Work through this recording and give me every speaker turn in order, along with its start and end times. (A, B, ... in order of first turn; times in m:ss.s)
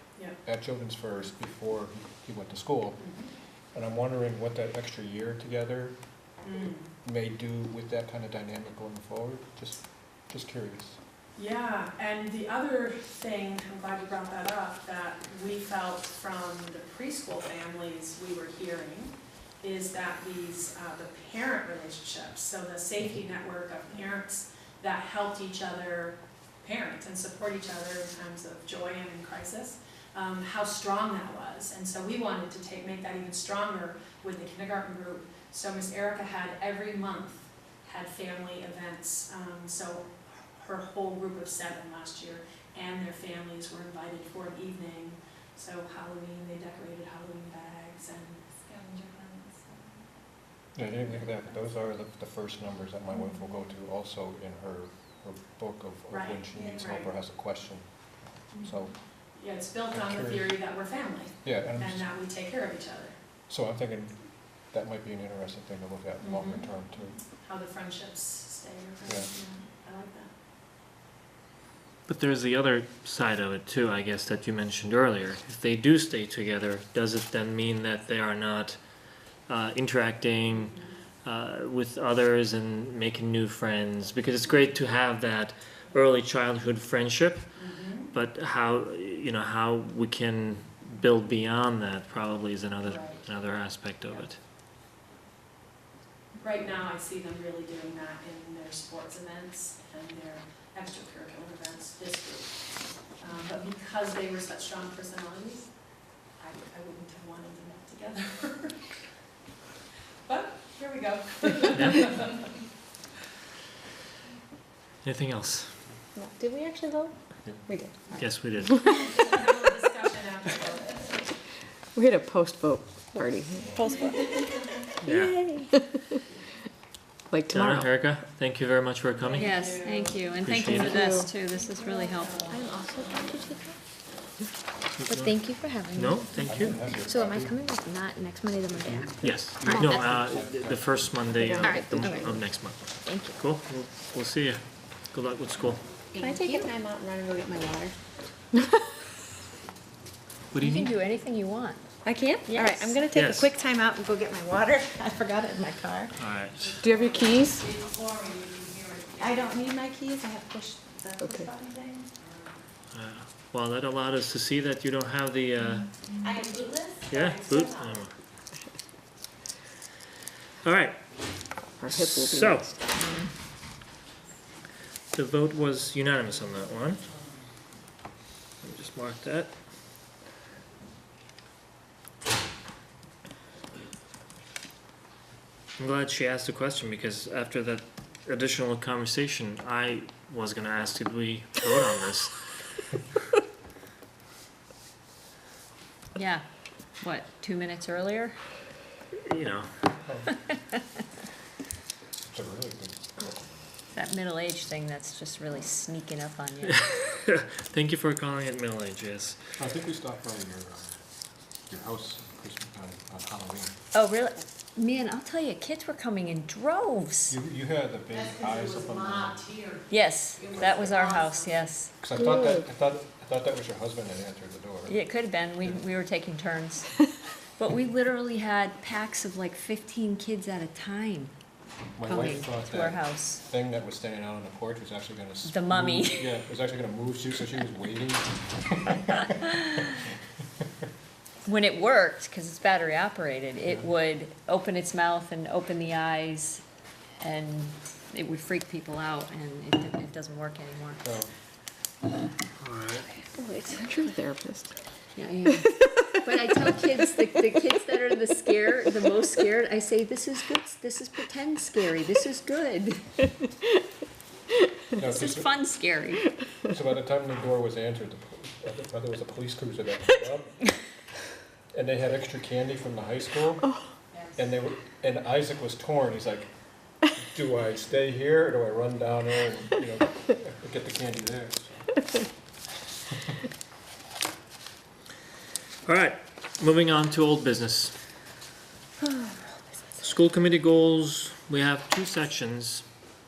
0:00.4-0:03.0 A
0:03.0-0:03.2 B
0:03.7-0:06.0 A
0:06.4-0:06.8 B
0:07.0-0:11.0 A
0:11.4-0:48.4 B
0:48.7-0:48.9 C
0:50.8-0:57.9 A
0:56.1-0:57.1 B
0:58.5-0:58.9 A
0:59.4-1:03.2 B
0:59.9-1:00.5 A
1:01.4-1:02.1 A
1:03.5-1:07.2 A
1:06.2-1:06.7 B
1:07.3-1:10.3 B
1:12.1-1:18.8 D
1:19.5-1:27.5 D
1:27.6-1:28.1 B
1:28.1-1:34.4 D
1:32.8-1:33.2 B
1:36.3-1:42.6 B
1:43.2-1:45.7 B
1:46.4-1:48.8 B
1:50.3-1:52.4 B
1:51.7-1:52.1 D
1:55.0-1:55.7 D
1:58.2-1:59.0 D
1:58.6-1:59.3 E
1:58.9-2:01.1 B
2:01.9-2:04.5 E
2:05.0-2:05.4 D
2:05.1-2:05.7 F
2:05.7-2:06.1 E
2:07.3-2:07.9 E
2:07.5-2:09.6 D
2:09.3-2:10.5 B
2:09.3-2:12.5 F
2:10.4-2:11.0 D
2:10.7-2:11.3 E
2:11.9-2:13.4 B
2:12.5-2:13.7 C
2:15.0-2:17.0 D
2:15.1-2:19.1 F
2:16.4-2:17.6 A
2:17.1-2:17.7 C
2:18.7-2:21.2 A
2:19.2-2:25.8 D
2:19.6-2:20.0 F
2:21.6-2:22.2 F
2:23.0-2:23.4 F
2:26.1-2:27.9 C
2:26.2-2:26.6 B
2:30.5-2:30.9 D
2:30.6-2:31.8 F
2:32.1-2:36.1 C
2:32.4-2:32.8 F
2:32.8-2:33.6 B
2:33.1-2:33.5 D
2:36.2-2:36.8 D
2:36.6-2:39.7 B
2:36.8-2:37.7 E
2:39.2-2:42.0 C
2:41.2-2:41.5 E
2:42.9-2:45.9 D
2:46.2-2:47.9 C
2:47.1-2:48.1 D
2:50.6-2:51.0 D
2:51.8-2:52.9 E
2:51.9-2:52.8 D
2:53.0-2:53.3 F
2:55.1-2:57.1 D
2:58.6-2:59.5 D
3:05.8-3:12.4 D
3:16.1-3:16.4 F
3:17.0-3:18.4 F
3:19.2-3:19.7 D
3:22.3-3:23.5 A
3:23.9-3:26.8 F
3:26.9-3:29.4 D
3:29.6-3:31.0 A
3:31.7-3:33.8 A
3:33.9-3:37.3 F
3:37.3-3:39.6 A
3:39.9-3:41.9 F
3:40.5-3:41.0 A
3:42.0-3:45.0 A
3:44.9-3:47.0 F
3:47.6-3:51.3 F
3:52.0-3:59.5 A
3:52.0-3:53.4 F
3:55.5-3:56.3 F
4:01.4-4:06.6 F
4:07.2-4:11.0 F
4:12.6-4:13.1 D
4:13.4-4:13.7 F
4:13.7-4:14.7 E
4:15.1-4:23.2 F
4:24.9-4:25.5 A
4:25.0-4:26.3 F
4:26.6-4:30.6 A
4:31.7-4:33.8 A
4:34.3-4:36.5 A
4:37.0-4:42.0 A
4:45.8-4:47.9 D
4:50.0-4:52.8 D